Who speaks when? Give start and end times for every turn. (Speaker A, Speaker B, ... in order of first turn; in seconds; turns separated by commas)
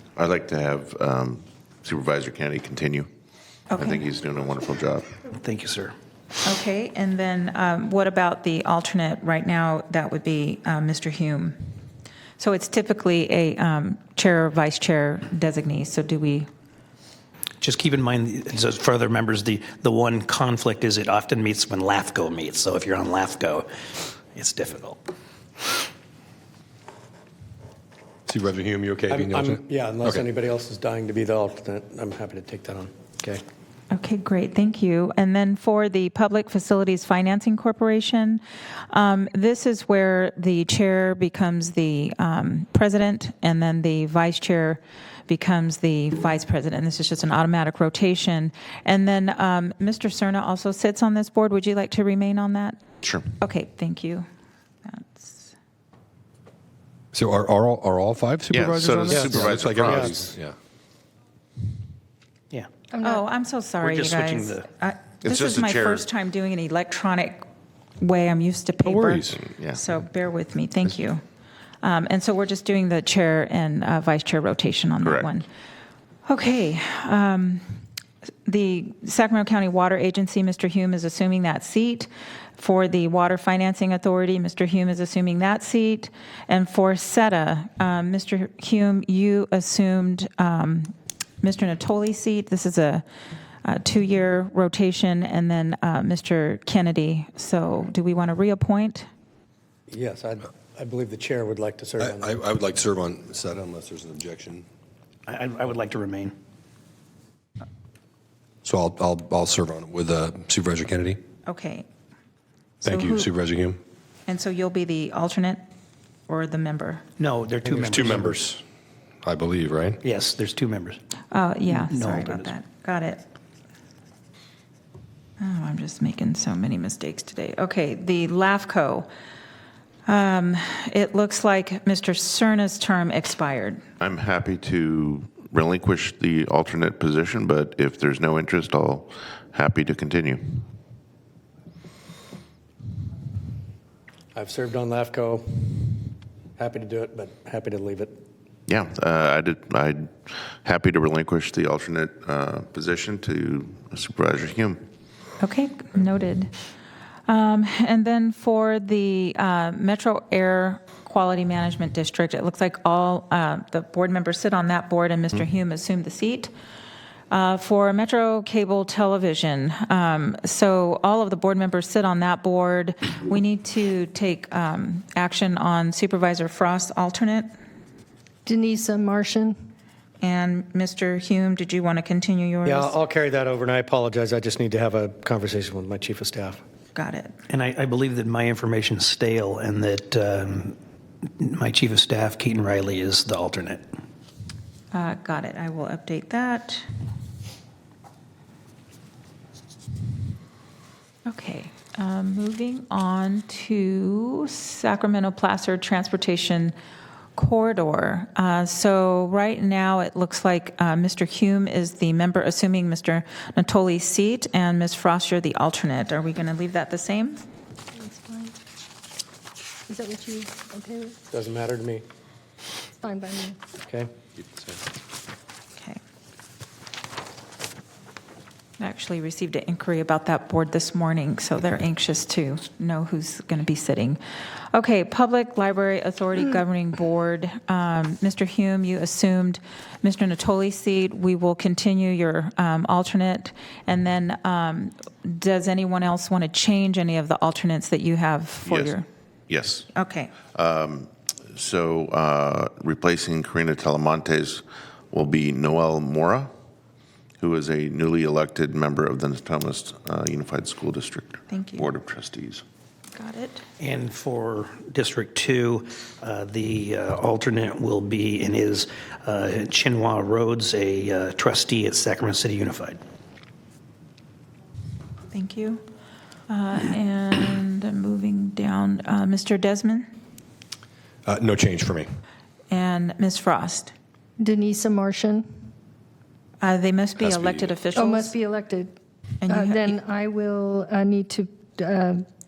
Speaker A: 0.2-3.1, Speaker B: 3.7-4.0, Speaker A: 3.8-5.1, Speaker C: 5.3-5.9, Speaker B: 6.4-11.6, Speaker B: 12.4-16.5, Speaker C: 17.6-23.7, Speaker C: 24.3-25.0, Speaker D: 28.3-30.2, Speaker E: 29.1-33.4, Speaker B: 33.9-52.8, Speaker A: 53.0-53.3, Speaker B: 53.4-54.2, Speaker B: 54.9-55.5, Speaker D: 57.1-60.5, Speaker A: 58.5-60.3, Speaker E: 59.1-60.2, Speaker F: 62.9-63.2, Speaker B: 63.0-67.4, Speaker C: 63.8-64.7, Speaker A: 65.2-66.1, Speaker B: 68.0-71.2, Speaker D: 68.8-69.3, Speaker A: 69.3-69.8, Speaker B: 71.8-75.5, Speaker A: 75.0-75.3, Speaker B: 76.2-77.6, Speaker B: 78.5-93.0, Speaker B: 93.6-99.1, Speaker E: 99.9-102.3, Speaker D: 102.0-104.7, Speaker C: 105.3-106.3, Speaker D: 108.6-111.2, Speaker B: 111.5-111.8, Speaker B: 112.8-113.3, Speaker D: 112.8-113.8, Speaker B: 114.3-115.6, Speaker B: 116.3-117.0, Speaker C: 117.2-118.4, Speaker D: 117.6-118.6, Speaker D: 119.2-120.0, Speaker C: 120.0-121.0, Speaker B: 121.3-123.2, Speaker C: 121.7-122.5, Speaker B: 125.4-129.1, Speaker B: 130.1-133.8, Speaker A: 134.0-140.7, Speaker E: 144.3-145.9, Speaker E: 146.6-148.1, Speaker A: 148.7-154.8, Speaker B: 155.4-156.5, Speaker B: 157.3-166.5, Speaker B: 167.3-177.5, Speaker F: 178.4-179.6, Speaker B: 180.2-182.9, Speaker E: 182.6-186.6, Speaker B: 186.9-187.3, Speaker C: 187.5-190.8, Speaker C: 191.4-193.8, Speaker B: 194.9-196.8, Speaker B: 201.2-206.7, Speaker B: 207.3-217.4, Speaker F: 217.9-218.5, Speaker F: 219.9-221.2, Speaker E: 221.3-222.0, Speaker F: 223.0-223.6, Speaker E: 223.8-224.1, Speaker B: 228.8-234.2, Speaker B: 234.7-249.1, Speaker A: 248.6-249.0, Speaker A: 249.5-249.9, Speaker B: 249.9-250.3, Speaker A: 250.4-256.5, Speaker A: 257.4-262.6, Speaker B: 261.5-261.9, Speaker B: 263.1-263.6, Speaker C: 263.8-273.0, Speaker B: 275.3-275.8, Speaker B: 276.5-280.1, Speaker D: 281.2-282.1, Speaker B: 282.7-283.9, Speaker F: 284.4-285.4, Speaker B: 286.6-288.4, Speaker A: 287.2-287.7, Speaker F: 287.9-288.9, Speaker B: 289.4-290.0, Speaker F: 289.5-292.2